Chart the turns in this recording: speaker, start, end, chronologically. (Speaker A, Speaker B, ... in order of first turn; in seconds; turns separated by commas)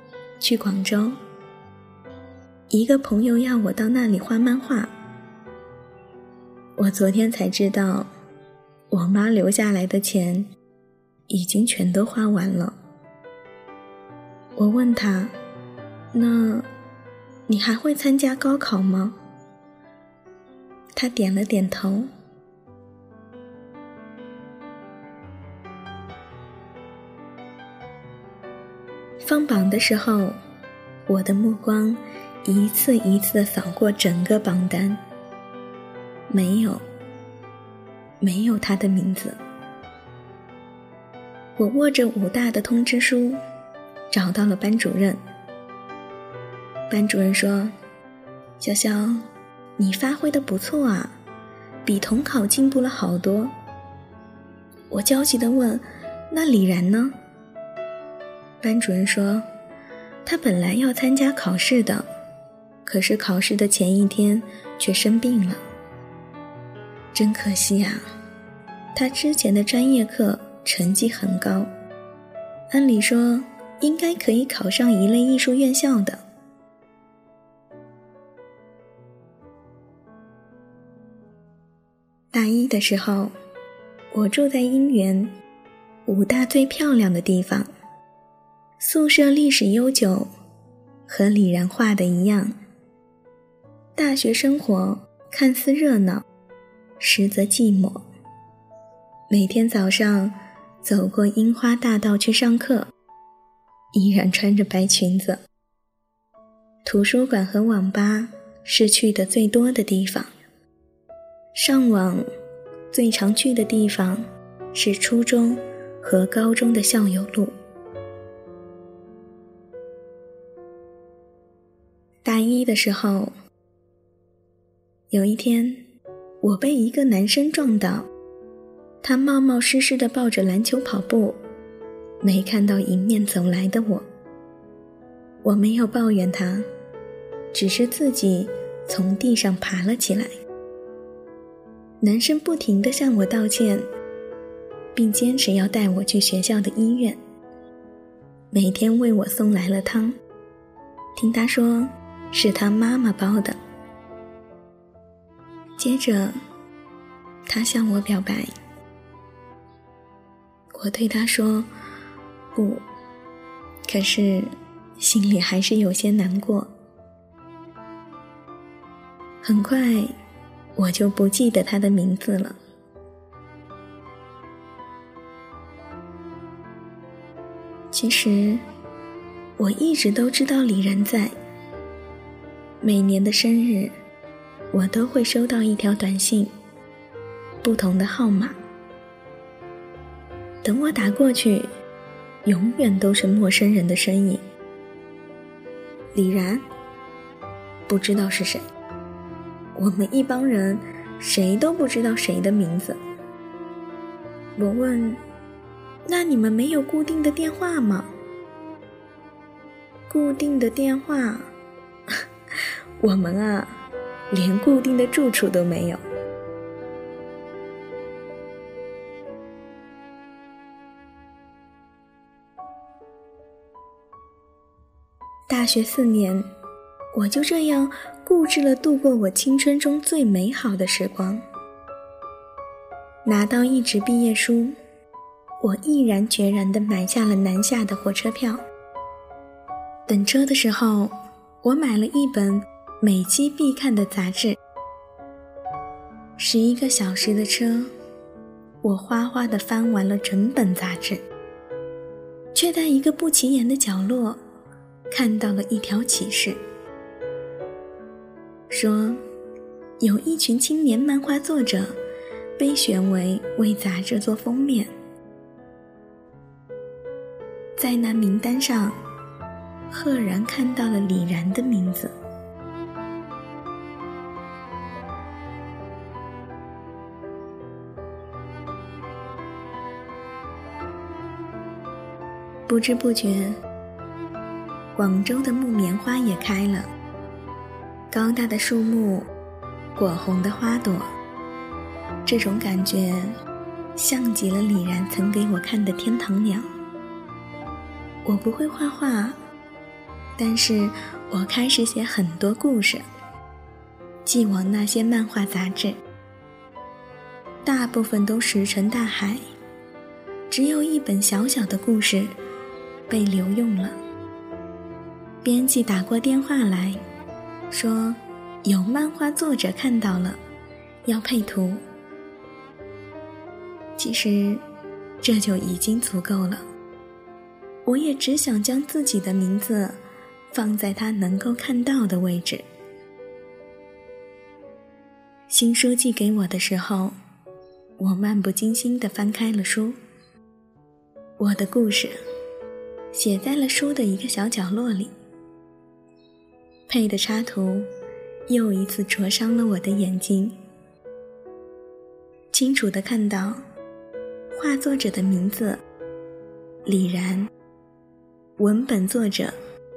Speaker A: 0.4-1.2, Speaker A: 2.7-4.9, Speaker A: 6.8-8.1, Speaker A: 8.9-10.5, Speaker A: 11.3-12.7, Speaker A: 14.6-15.3, Speaker A: 16.1-16.6, Speaker A: 17.5-19.1, Speaker A: 20.9-22.1, Speaker A: 29.2-30.3, Speaker A: 31.1-35.0, Speaker A: 36.3-36.8, Speaker A: 38.2-39.4, Speaker A: 41.6-43.4, Speaker A: 44.1-45.2, Speaker A: 46.9-47.7, Speaker A: 48.6-49.2, Speaker A: 49.8-51.1, Speaker A: 51.8-53.5, Speaker A: 54.9-57.1, Speaker A: 58.6-59.4, Speaker A: 60.2-62.0, Speaker A: 62.8-65.6, Speaker A: 67.1-68.0, Speaker A: 68.9-71.7, Speaker A: 72.7-76.2, Speaker A: 82.3-83.3, Speaker A: 84.1-85.3, Speaker A: 86.0-87.7, Speaker A: 88.8-90.3, Speaker A: 91.1-92.5, Speaker A: 94.0-96.2, Speaker A: 97.0-98.0, Speaker A: 99.3-102.9, Speaker A: 103.9-105.4, Speaker A: 106.8-110.3, Speaker A: 111.5-112.2, Speaker A: 112.9-114.2, Speaker A: 114.7-117.5, Speaker A: 122.2-123.3, Speaker A: 125.1-125.8, Speaker A: 126.4-128.1, Speaker A: 129.0-131.4, Speaker A: 132.2-134.1, Speaker A: 135.4-136.7, Speaker A: 137.5-140.3, Speaker A: 142.0-143.8, Speaker A: 144.9-147.2, Speaker A: 148.5-150.2, Speaker A: 151.2-153.6, Speaker A: 155.8-156.3, Speaker A: 157.4-158.5, Speaker A: 160.7-161.7, Speaker A: 162.5-162.8, Speaker A: 163.8-166.7, Speaker A: 169.4-170.1, Speaker A: 170.8-172.6, Speaker A: 177.9-178.6, Speaker A: 179.6-181.3, Speaker A: 182.8-183.9, Speaker A: 184.7-186.5, Speaker A: 187.6-188.6, Speaker A: 190.6-191.7, Speaker A: 192.4-194.4, Speaker A: 196.1-196.6, Speaker A: 197.9-198.6, Speaker A: 199.8-203.0, Speaker A: 204.6-205.2, Speaker A: 206.1-208.1, Speaker A: 210.1-211.5, Speaker A: 212.1-213.7, Speaker A: 214.3-216.0, Speaker A: 225.5-226.4, Speaker A: 227.1-231.4, Speaker A: 233.2-234.7, Speaker A: 235.6-238.6, Speaker A: 240.1-244.6, Speaker A: 246.4-247.9, Speaker A: 248.8-251.2, Speaker A: 252.5-254.4, Speaker A: 255.1-256.6, Speaker A: 258.7-259.2, Speaker A: 260.0-262.0, Speaker A: 262.6-264.9, Speaker A: 267.8-268.9, Speaker A: 269.9-272.1, Speaker A: 282.7-283.6, Speaker A: 284.9-286.9, Speaker A: 288.1-289.3, Speaker A: 289.9-291.1, Speaker A: 292.2-293.3, Speaker A: 293.9-296.7, Speaker A: 298.2-299.4, Speaker A: 300.4-303.0, Speaker A: 304.2-306.0, Speaker A: 307.6-309.4, Speaker A: 310.5-312.3, Speaker A: 313.1-314.0, Speaker A: 315.4-317.0, Speaker A: 317.7-320.4, Speaker A: 321.0-321.8, Speaker A: 324.0-324.6, Speaker A: 325.2-326.6, Speaker A: 327.9-330.0, Speaker A: 330.5-332.6, Speaker A: 335.5-337.1, Speaker A: 338.0-340.0, Speaker A: 341.4-342.1, Speaker A: 343.1-345.1, Speaker A: 346.9-347.9, Speaker A: 348.5-350.6, Speaker A: 352.5-353.6, Speaker A: 354.5-355.8, Speaker A: 356.9-357.5, Speaker A: 358.6-359.5